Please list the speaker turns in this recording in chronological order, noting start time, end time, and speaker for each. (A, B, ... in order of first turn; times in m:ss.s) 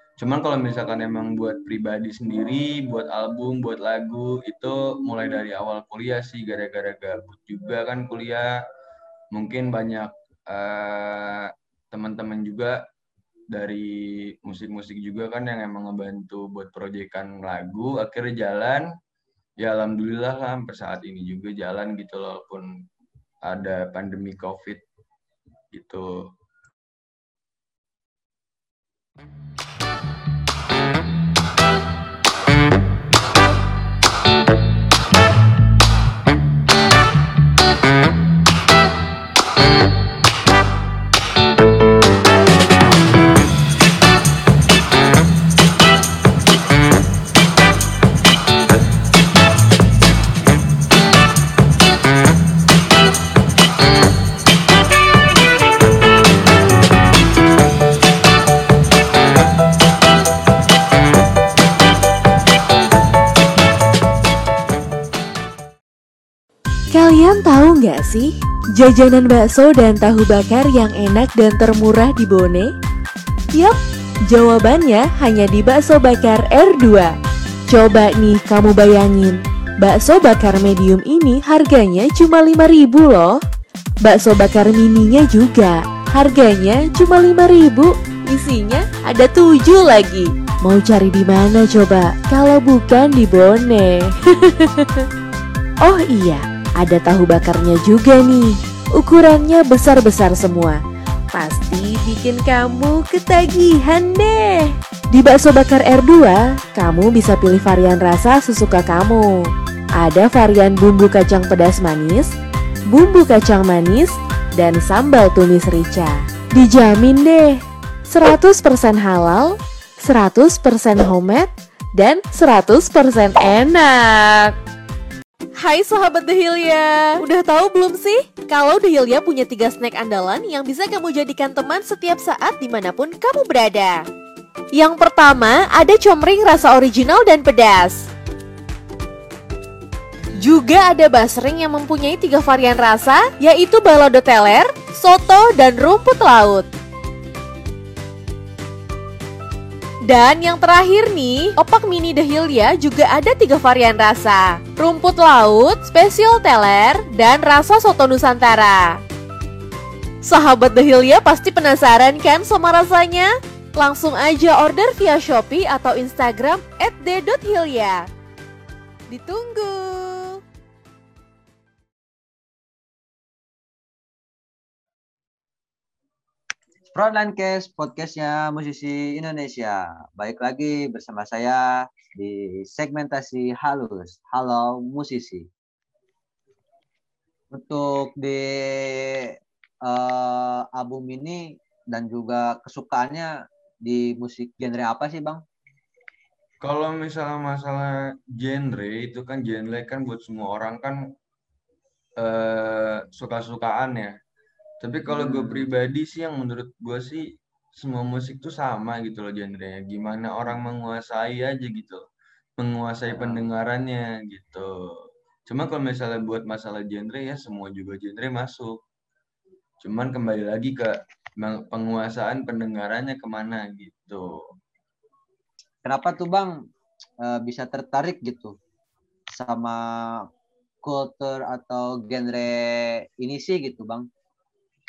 0:00.2-0:08.6 A
0:09.3-0:12.8 A
0:13.5-0:18.9 A
0:19.6-0:22.7 A
0:23.4-0:24.8 A
0:25.7-0:26.3 A
1:06.9-1:12.7 B
1:14.3-1:17.1 B
1:17.7-1:23.4 B
1:24.0-1:35.1 B
1:35.8-1:40.8 B
1:41.3-1:52.3 B
1:52.9-2:04.6 B
2:05.6-2:14.0 B
2:14.7-2:18.1 B
2:20.4-2:26.7 B
2:30.0-2:39.0 B
2:40.2-2:48.1 B
2:49.1-2:50.4 B
2:57.0-3:05.5 C
3:07.5-3:09.3 C
3:09.9-3:13.3 C
3:13.8-3:15.4 C
3:16.6-3:21.0 A
3:22.2-3:24.2 A
3:24.8-3:32.0 A
3:25.1-3:25.7 C
3:32.6-3:38.8 A
3:33.1-3:33.4 C
3:39.8-3:44.4 A
3:45.8-3:46.6 C
3:47.2-3:48.6 C
3:49.3-3:50.3 C
3:50.8-3:54.1 C